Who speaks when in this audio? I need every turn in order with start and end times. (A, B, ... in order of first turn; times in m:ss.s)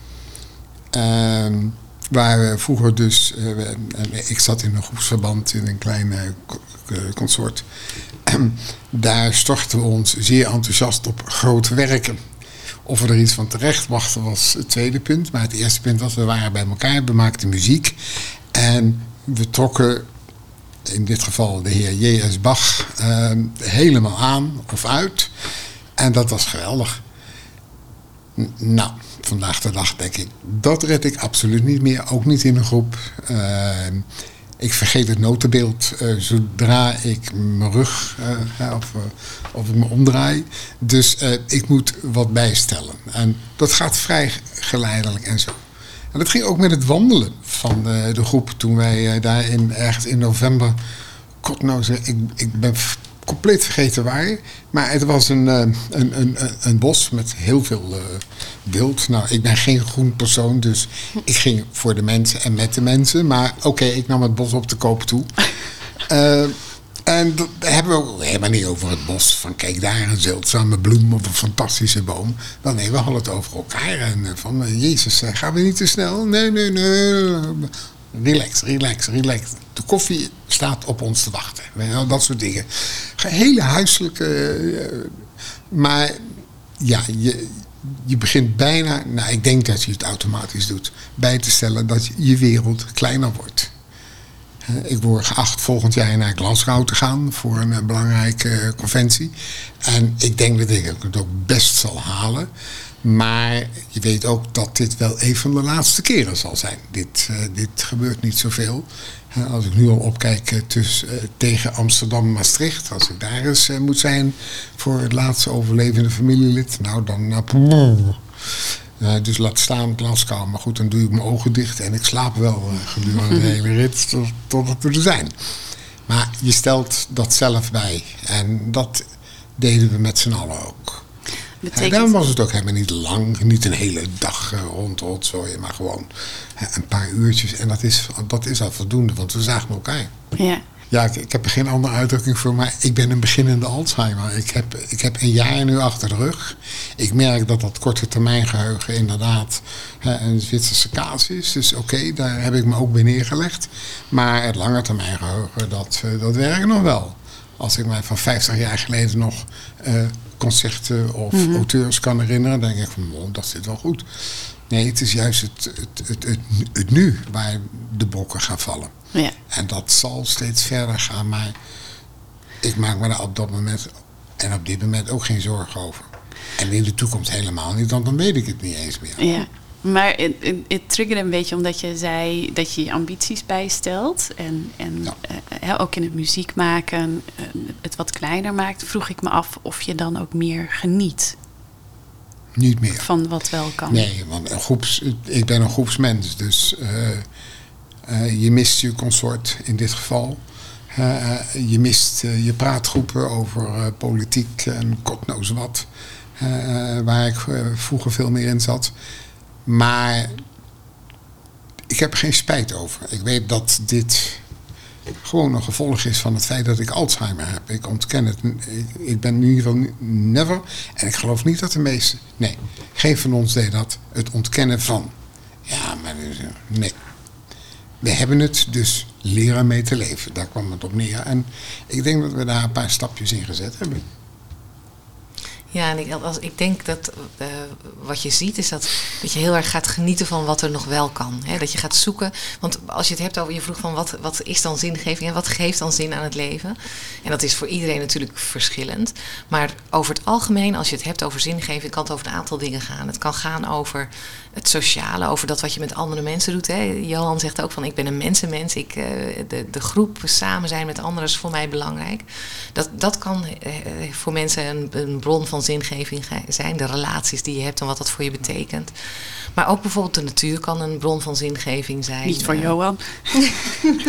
0:00.9-0:07.6 A
0:08.2-0:12.2 A
0:12.8-0:18.0 A
0:18.5-0:20.1 A
0:20.9-0:25.3 A
0:26.0-0:27.0 A
0:28.4-0:34.1 A
0:34.6-0:45.6 A
0:46.1-0:50.8 A
0:51.4-1:05.5 A
1:06.1-1:33.7 A
1:34.6-1:42.5 A
1:43.0-2:05.5 A
2:06.1-2:09.1 A
2:09.6-2:11.0 A
2:11.6-2:12.3 B
2:11.7-2:20.1 A
2:20.4-2:20.6 B
2:20.9-2:48.9 A
2:41.3-2:41.6 B
2:49.5-2:51.6 A
2:52.6-2:59.3 A
2:59.2-3:11.4 B
3:12.6-3:13.1 A
3:13.0-3:14.0 B
3:13.9-3:17.3 A
3:18.1-3:28.9 A
3:29.7-3:30.3 A
3:31.9-3:34.4 A
3:35.2-3:45.1 A
3:45.7-3:47.0 A
3:48.0-3:54.0 A
3:55.7-4:28.9 C
4:29.6-4:32.7 C
4:32.2-4:33.8 B